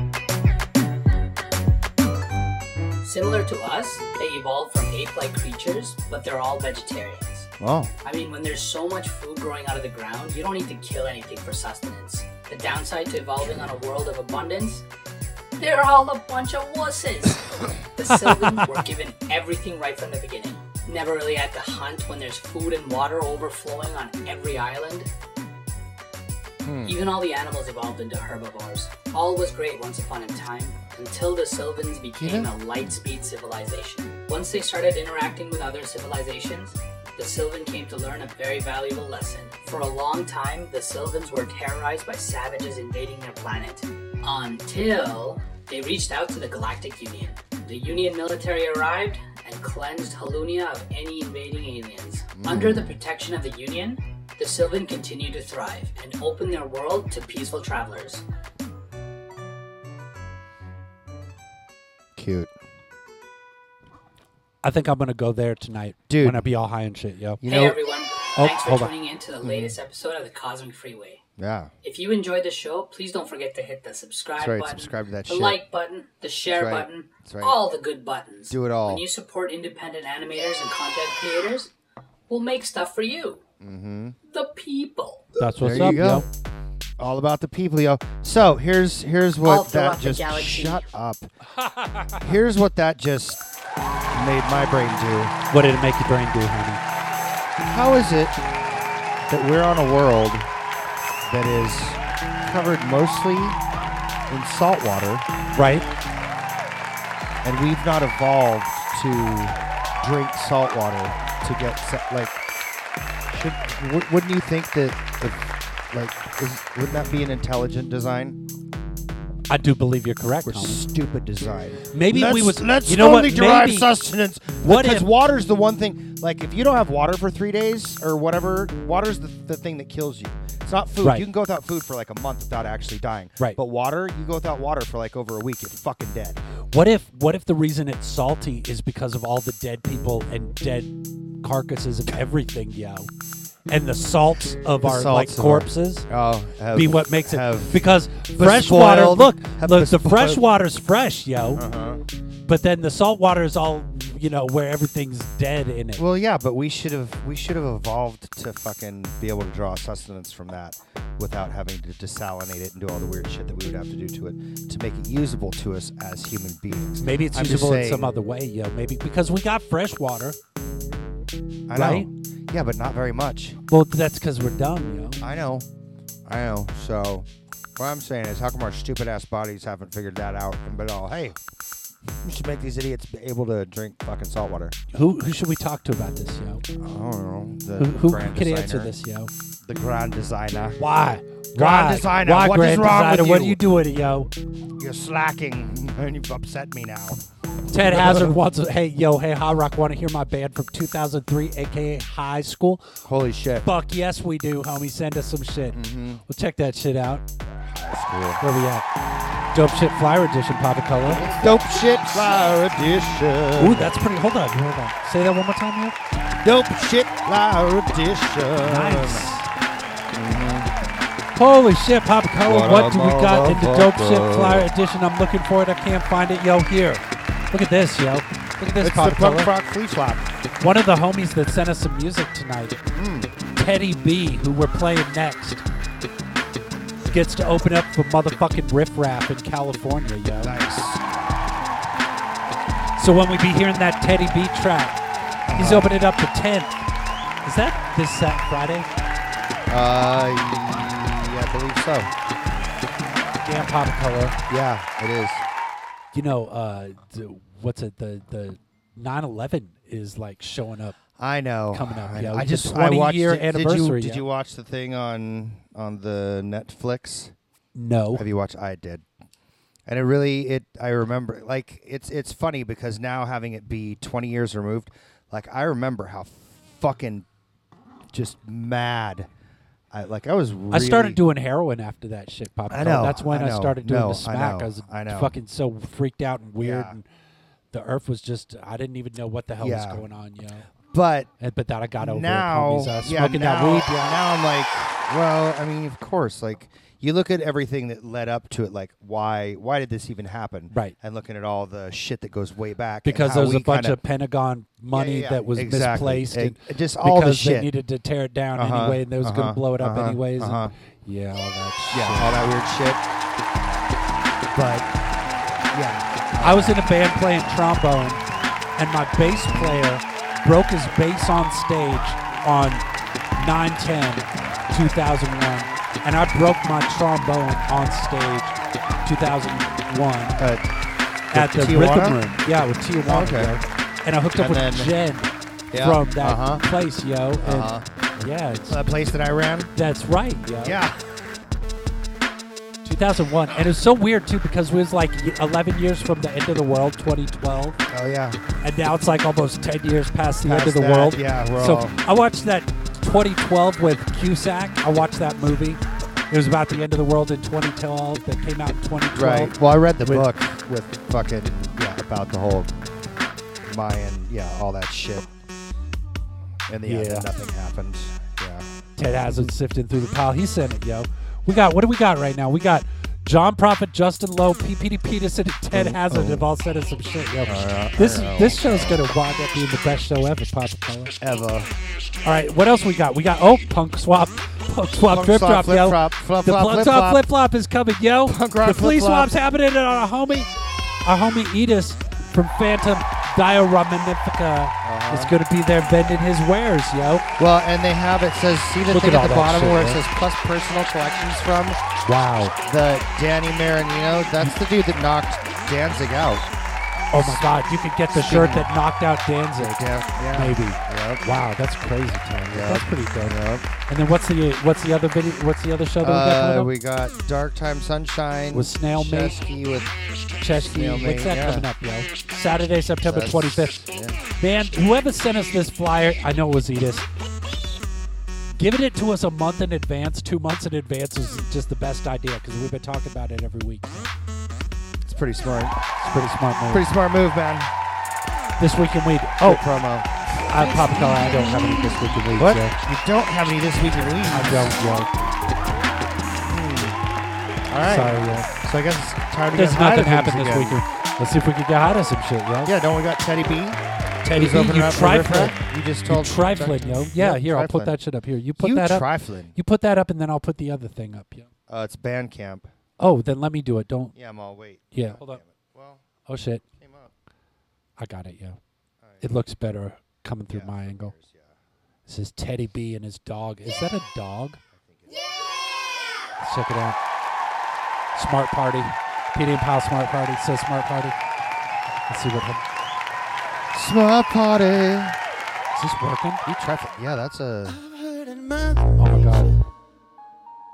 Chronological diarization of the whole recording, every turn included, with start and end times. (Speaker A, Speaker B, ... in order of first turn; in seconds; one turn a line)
Speaker A: 3.0-7.5
Speaker B: 7.6-7.9
Speaker A: 8.0-14.8
Speaker A: 15.6-25.1
Speaker C: 18.1-18.7
Speaker B: 26.6-27.0
Speaker A: 26.8-58.2
Speaker B: 32.2-32.5
Speaker B: 52.4-53.0
Speaker B: 62.2-62.5
Speaker C: 64.6-67.4
Speaker B: 66.1-66.5
Speaker B: 67.4-67.8
Speaker A: 67.4-71.2
Speaker C: 68.4-68.9
Speaker B: 69.4-69.8
Speaker B: 71.4-71.7
Speaker A: 71.8-81.7
Speaker B: 74.4-75.6
Speaker B: 76.5-77.6
Speaker B: 78.5-79.0
Speaker A: 82.3-83.4
Speaker B: 83.6-84.2
Speaker A: 84.3-85.3
Speaker C: 85.4-86.3
Speaker B: 85.6-86.3
Speaker B: 87.0-91.3
Speaker A: 89.4-90.8
Speaker C: 91.6-92.2
Speaker B: 92.2-93.4
Speaker B: 94.1-95.3
Speaker C: 95.5-96.8
Speaker B: 97.7-98.4
Speaker B: 99.3-100.5
Speaker B: 101.3-103.6
Speaker B: 104.3-105.3
Speaker C: 105.5-105.9
Speaker B: 107.4-112.4
Speaker B: 113.3-118.4
Speaker C: 119.5-120.8
Speaker B: 120.5-136.4
Speaker C: 121.9-123.9
Speaker C: 124.6-125.1
Speaker C: 131.0-131.3
Speaker C: 136.7-143.1
Speaker C: 143.7-146.1
Speaker B: 144.7-147.8
Speaker C: 146.7-151.6
Speaker B: 148.3-150.4
Speaker B: 151.6-152.0
Speaker C: 152.5-156.0
Speaker B: 156.0-168.2
Speaker C: 167.0-170.4
Speaker B: 171.7-173.6
Speaker C: 171.7-172.1
Speaker C: 173.7-175.2
Speaker B: 175.2-175.7
Speaker B: 176.2-181.4
Speaker B: 182.1-184.8
Speaker C: 184.9-186.6
Speaker B: 186.8-188.9
Speaker C: 187.8-189.3
Speaker B: 189.6-190.8
Speaker C: 190.8-194.3
Speaker B: 191.5-193.6
Speaker B: 194.8-197.2
Speaker C: 197.7-202.9
Speaker B: 197.8-198.4
Speaker B: 203.1-203.7
Speaker C: 203.6-207.2
Speaker B: 205.7-206.2
Speaker B: 207.7-208.4
Speaker C: 208.4-208.9
Speaker C: 209.5-211.3
Speaker B: 211.1-214.0
Speaker C: 213.6-216.0
Speaker B: 216.4-219.3
Speaker C: 218.6-219.5
Speaker B: 220.1-220.7
Speaker C: 221.3-229.5
Speaker B: 222.4-224.7
Speaker B: 228.8-230.3
Speaker C: 230.6-232.8
Speaker B: 232.9-233.3
Speaker C: 233.6-235.6
Speaker C: 237.1-240.6
Speaker B: 240.4-241.0
Speaker C: 243.0-245.0
Speaker B: 245.5-245.9
Speaker C: 245.6-246.8
Speaker C: 247.4-248.9
Speaker B: 249.7-252.1
Speaker C: 253.3-254.4
Speaker B: 254.5-255.4
Speaker C: 256.1-261.0
Speaker B: 261.2-267.3
Speaker C: 261.7-264.2
Speaker C: 267.8-268.3
Speaker B: 268.1-269.1
Speaker B: 269.9-277.3
Speaker B: 278.1-279.3
Speaker B: 279.9-281.2
Speaker C: 280.7-287.1
Speaker B: 282.7-285.4
Speaker B: 286.6-287.0
Speaker C: 287.7-290.7
Speaker B: 289.6-290.1
Speaker B: 290.9-291.3
Speaker C: 291.4-294.2
Speaker B: 292.0-304.0
Speaker C: 303.1-312.4
Speaker B: 304.9-307.7
Speaker B: 308.6-310.7
Speaker B: 311.9-313.0
Speaker B: 314.5-314.9
Speaker B: 315.7-316.8
Speaker C: 316.4-318.2
Speaker C: 318.8-322.8
Speaker B: 319.5-319.8
Speaker C: 323.4-330.4
Speaker B: 330.4-330.7
Speaker B: 331.3-332.2
Speaker C: 331.3-338.8
Speaker B: 333.0-333.6
Speaker B: 334.4-334.9
Speaker B: 335.7-336.6
Speaker B: 337.4-337.9
Speaker B: 338.7-339.7
Speaker C: 339.8-340.8
Speaker B: 340.6-341.1
Speaker C: 342.8-347.8
Speaker B: 347.9-348.4
Speaker C: 348.6-355.8
Speaker B: 350.4-352.0
Speaker C: 356.3-360.3
Speaker B: 359.1-362.7
Speaker B: 363.6-365.3
Speaker B: 366.7-368.7
Speaker C: 366.9-367.3
Speaker C: 369.0-381.1
Speaker B: 369.2-369.5
Speaker B: 375.7-376.4
Speaker B: 377.4-379.0
Speaker B: 381.2-381.7
Speaker C: 382.2-390.5
Speaker B: 385.1-387.2
Speaker B: 388.3-389.3
Speaker C: 391.0-397.3
Speaker B: 394.8-395.3
Speaker B: 397.4-401.8
Speaker C: 398.9-400.0
Speaker C: 402.0-402.6
Speaker B: 402.6-406.5
Speaker C: 407.1-416.7
Speaker B: 407.1-407.4
Speaker B: 408.1-408.7
Speaker B: 409.6-411.2
Speaker B: 412.5-413.7
Speaker B: 416.0-419.9
Speaker C: 418.5-419.4
Speaker C: 420.4-423.8
Speaker B: 420.7-421.7
Speaker B: 423.0-424.2
Speaker C: 424.4-427.1
Speaker C: 428.6-434.1
Speaker B: 435.1-435.8
Speaker C: 436.0-436.9
Speaker B: 436.7-437.7
Speaker C: 438.6-439.6
Speaker B: 439.4-440.1
Speaker C: 440.5-442.8
Speaker B: 442.4-444.7
Speaker C: 444.3-445.1
Speaker B: 446.5-447.0
Speaker B: 447.7-450.8
Speaker C: 447.9-448.5
Speaker C: 449.5-452.7
Speaker B: 452.6-453.8
Speaker C: 454.2-455.6
Speaker B: 454.3-458.0
Speaker C: 456.1-461.5
Speaker B: 458.6-459.6
Speaker B: 461.7-462.7
Speaker C: 463.0-464.1
Speaker B: 464.1-466.0
Speaker C: 464.9-465.4
Speaker C: 466.3-466.6
Speaker B: 466.8-467.1
Speaker C: 468.0-468.6
Speaker B: 469.0-469.5
Speaker C: 469.2-471.1
Speaker B: 470.5-471.6
Speaker C: 472.1-474.6
Speaker B: 474.7-475.4
Speaker C: 476.4-477.0
Speaker C: 478.1-481.2
Speaker C: 482.1-482.6
Speaker B: 483.7-485.2
Speaker C: 485.7-486.4
Speaker B: 486.4-487.8
Speaker C: 489.0-489.6